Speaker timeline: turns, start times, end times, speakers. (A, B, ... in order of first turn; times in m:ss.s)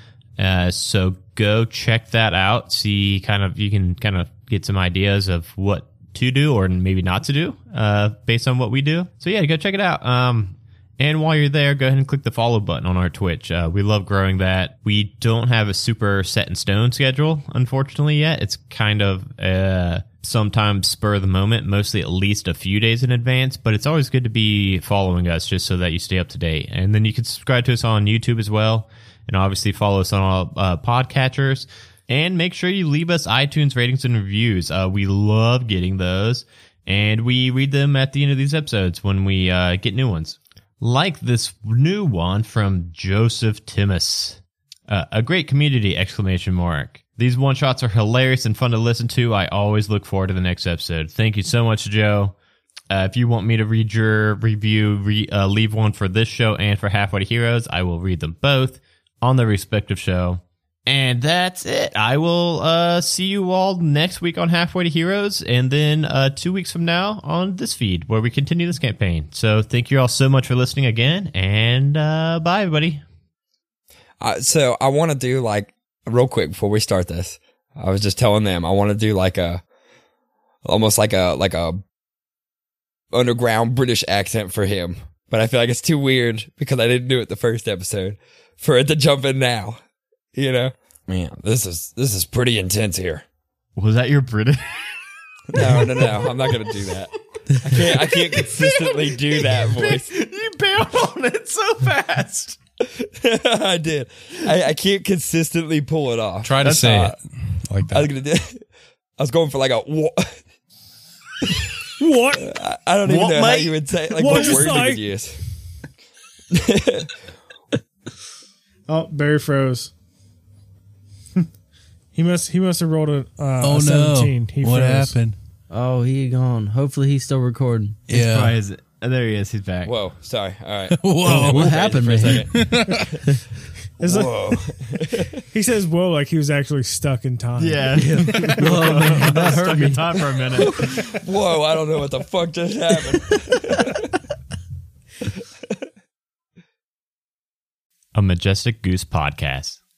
0:00.4-0:52.4 A
0:52.9-1:13.0 A
1:14.2-1:19.6 B
1:20.7-1:21.8 B
1:23.1-1:29.8 B
1:30.4-1:33.2 B
1:33.8-1:34.8 A
1:35.5-1:40.1 B
1:36.0-1:36.8 A
1:37.6-1:42.6 A
1:42.8-1:47.2 B
1:46.4-1:48.1 C
1:47.9-1:48.6 B
1:49.2-1:50.4 B
1:51.4-1:51.7 B
1:52.0-1:52.5 D
1:52.3-1:55.4 B
1:53.0-1:54.8 A
1:54.2-1:55.0 D
1:56.5-1:57.1 B
1:58.9-1:59.9 D
2:02.1-2:05.2 D
2:03.6-2:05.4 C
2:05.7-2:08.0 E
2:08.1-2:08.6 C
2:08.1-2:09.9 A
2:09.8-2:13.2 B
2:10.9-2:13.2 C
2:11.2-2:12.6 E
2:14.0-2:14.6 D
2:14.0-2:15.4 B
2:15.5-2:19.6 D
2:17.6-2:20.8 A
2:17.9-2:20.2 E
2:20.6-2:24.1 B
2:28.1-2:29.8 A